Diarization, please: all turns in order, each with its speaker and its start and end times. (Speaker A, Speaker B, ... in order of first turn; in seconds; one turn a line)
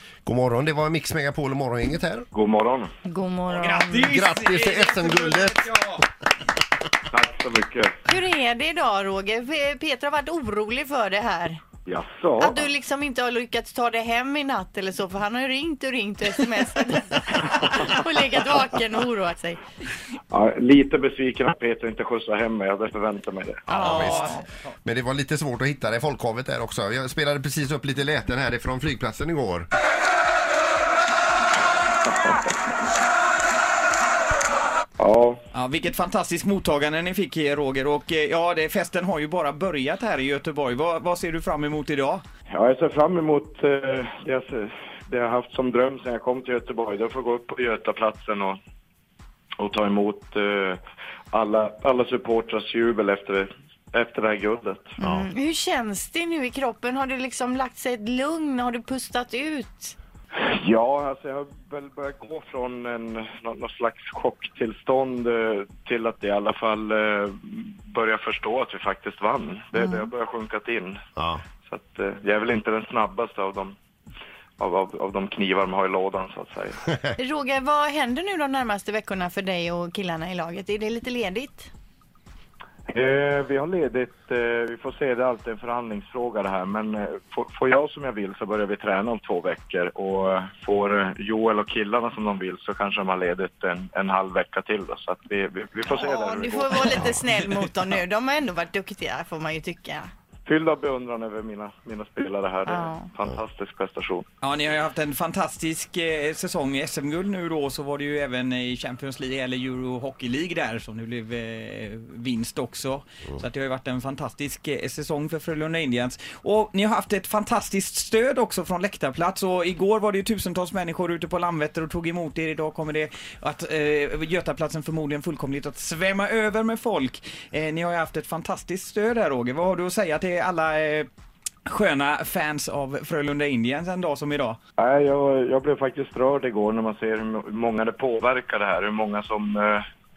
Speaker A: 0.2-2.2
Speaker B: 2.3-2.9
Speaker C: 3.0-4.1
Speaker D: 3.5-6.0
Speaker A: 4.0-5.6
Speaker B: 7.1-8.0
Speaker C: 8.1-11.6
Speaker B: 11.8-12.6
Speaker C: 12.4-19.6
Speaker B: 20.3-24.3
Speaker A: 23.7-29.7
Speaker D: 23.7-24.7
Speaker B: 32.0-32.7
Speaker B: 35.0-35.4
Speaker D: 35.5-42.2
Speaker B: 42.5-48.6
Speaker B: 49.6-50.8
Speaker B: 51.3-55.0
Speaker C: 55.0-59.9
Speaker A: 55.0-55.3
Speaker B: 60.4-71.0
Speaker C: 69.7-70.1
Speaker A: 71.2-71.4
Speaker B: 71.7-73.8
Speaker B: 74.6-76.8
Speaker C: 77.2-81.7
Speaker B: 82.9-97.0
Speaker C: 95.9-100.1
Speaker B: 100.5-104.2
Speaker C: 102.7-103.1
Speaker D: 104.4-131.1
Speaker D: 131.7-134.6
Speaker B: 134.8-139.8